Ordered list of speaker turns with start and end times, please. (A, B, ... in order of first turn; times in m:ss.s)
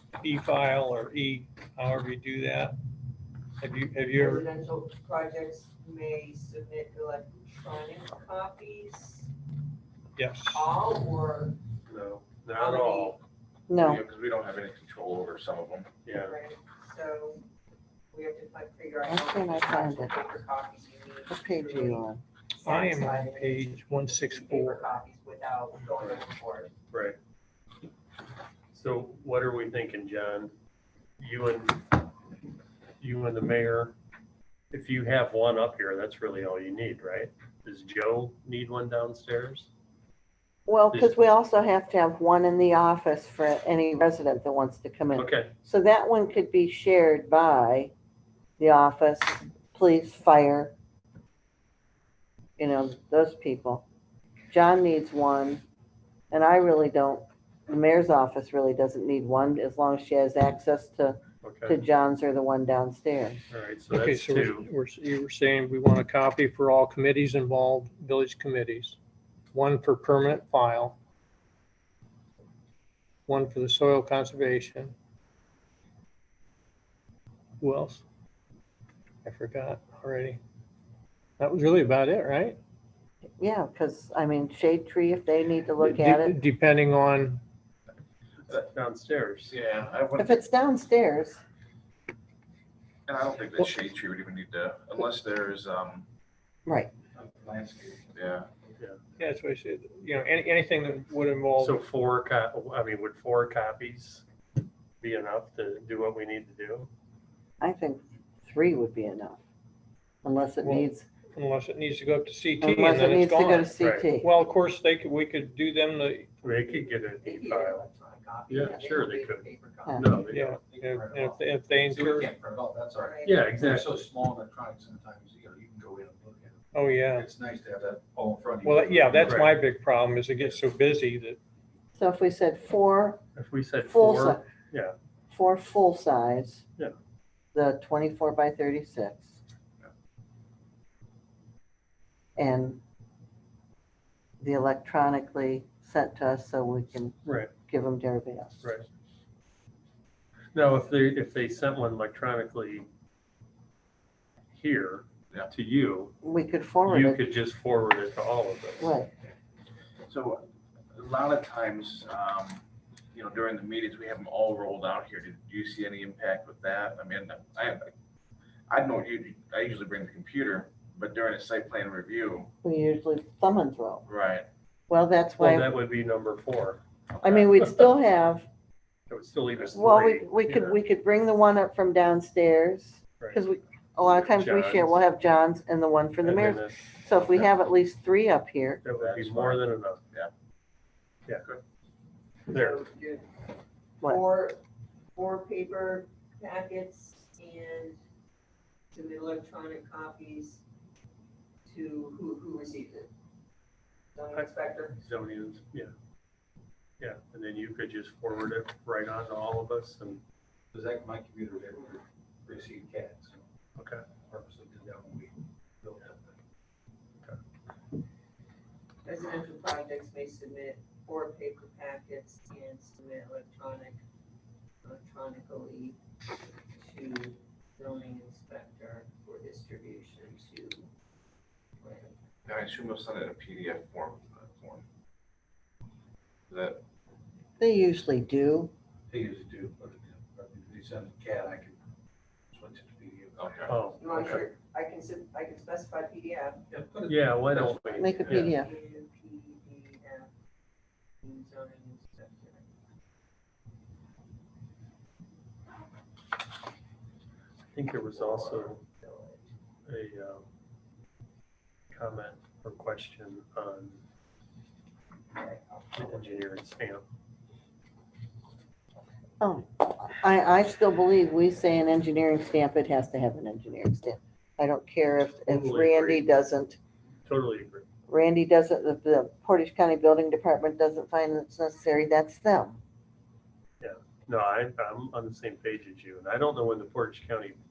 0:00.2-0:02.8 A
0:03.6-0:04.4 A
0:04.1-0:09.3 B
0:10.2-0:10.7 A
0:10.5-0:11.6 B
0:11.9-0:13.2 C
0:12.6-0:13.2 B
0:13.7-0:14.0 D
0:13.8-0:15.9 E
0:16.0-0:16.4 C
0:16.1-0:17.4 B
0:18.1-0:22.0 B
0:19.1-0:20.1 D
0:21.3-0:22.2 D
0:22.6-0:26.7 B
0:22.6-0:24.9 A
0:26.9-0:27.2 C
0:28.7-0:30.5 C
0:31.2-0:32.0 C
0:33.0-0:33.9 C
0:34.7-0:39.7 C
0:40.7-0:47.9 D
0:45.2-0:45.5 C
0:48.6-0:50.7 D
0:52.6-0:53.8 D
0:54.5-0:55.6 D
0:56.3-1:03.4 D
1:01.4-1:01.8 C
1:03.5-1:04.7 C
1:03.9-1:09.0 A
1:09.5-1:11.0 A
1:13.3-1:14.9 A
1:17.6-1:18.0 A
1:19.2-1:20.4 A
1:21.4-1:22.6 A
1:23.4-1:26.4 D
1:25.8-1:27.4 A
1:28.5-1:29.5 C
1:29.5-1:30.4 E
1:30.2-1:31.4 D
1:33.1-1:36.0 E
1:36.7-1:36.9 D
1:37.1-1:38.1 F
1:38.1-1:38.5 E
1:39.2-1:41.8 A
1:41.6-1:44.2 C
1:45.0-1:46.9 C
1:47.6-1:49.4 D
1:50.2-1:51.1 D
1:50.6-1:56.6 A
1:52.6-1:54.3 D
1:53.8-1:54.0 C
1:56.4-1:57.8 C
1:56.7-2:00.3 B
1:58.5-2:00.6 C
2:00.3-2:02.3 A
2:00.6-2:09.5 F
2:03.0-2:03.4 B
2:03.2-2:03.9 C
2:06.7-2:07.3 A
2:08.6-2:11.4 A
2:09.2-2:09.6 C
2:12.0-2:13.2 D
2:13.4-2:14.9 C
2:13.8-2:14.4 D
2:15.3-2:16.6 D
2:17.5-2:19.4 D
2:22.4-2:22.8 D
2:24.4-2:27.2 D
2:27.2-2:27.5 C
2:27.7-2:28.7 D
2:30.5-2:32.9 C
2:34.5-2:36.2 C
2:36.2-2:37.3 D
2:36.8-2:39.0 C
2:38.8-2:39.1 D
2:40.1-2:40.4 E
2:40.9-2:42.6 E
2:43.1-2:47.9 E
2:48.7-2:52.5 E
2:52.6-2:54.1 D
2:54.1-2:54.5 E
2:54.9-2:55.8 D
2:55.4-2:57.4 C
2:57.2-2:58.5 D
2:59.1-3:00.8 C
2:59.7-3:08.8 D
3:04.0-3:05.0 C
3:06.2-3:06.8 C
3:08.8-3:10.0 C
3:08.9-3:10.3 E
3:12.5-3:13.3 B
3:12.5-3:12.8 C
3:14.0-3:14.6 B
3:15.2-3:18.0 B
3:18.9-3:20.6 B
3:21.7-3:23.1 B
3:24.2-3:25.0 B
3:24.3-3:25.9 C
3:27.0-3:30.2 C
3:30.7-3:33.4 F
3:33.8-3:34.0 C
3:34.3-3:36.2 F
3:39.0-3:44.0 B
3:44.8-3:46.0 B
3:46.8-3:50.8 B
3:51.8-3:52.1 B
3:52.5-3:54.8 E
3:56.5-3:56.8 E
3:57.6-3:58.7 D
3:59.1-4:01.8 F
4:02.5-4:04.4 F
4:03.4-4:03.8 E
4:03.7-4:04.4 C
4:03.9-4:06.6 B
4:06.7-4:08.5 F
4:07.1-4:08.6 C
4:07.9-4:08.7 D
4:08.5-4:10.3 B
4:11.2-4:12.6 B
4:17.7-4:18.8 C
4:18.1-4:19.5 B
4:19.9-4:20.4 C
4:21.9-4:24.0 C
4:25.4-4:26.4 B
4:25.9-4:27.0 C
4:29.4-4:36.8 D
4:35.4-4:36.2 C
4:37.2-4:37.8 C
4:38.1-4:42.8 D
4:43.8-4:47.6 C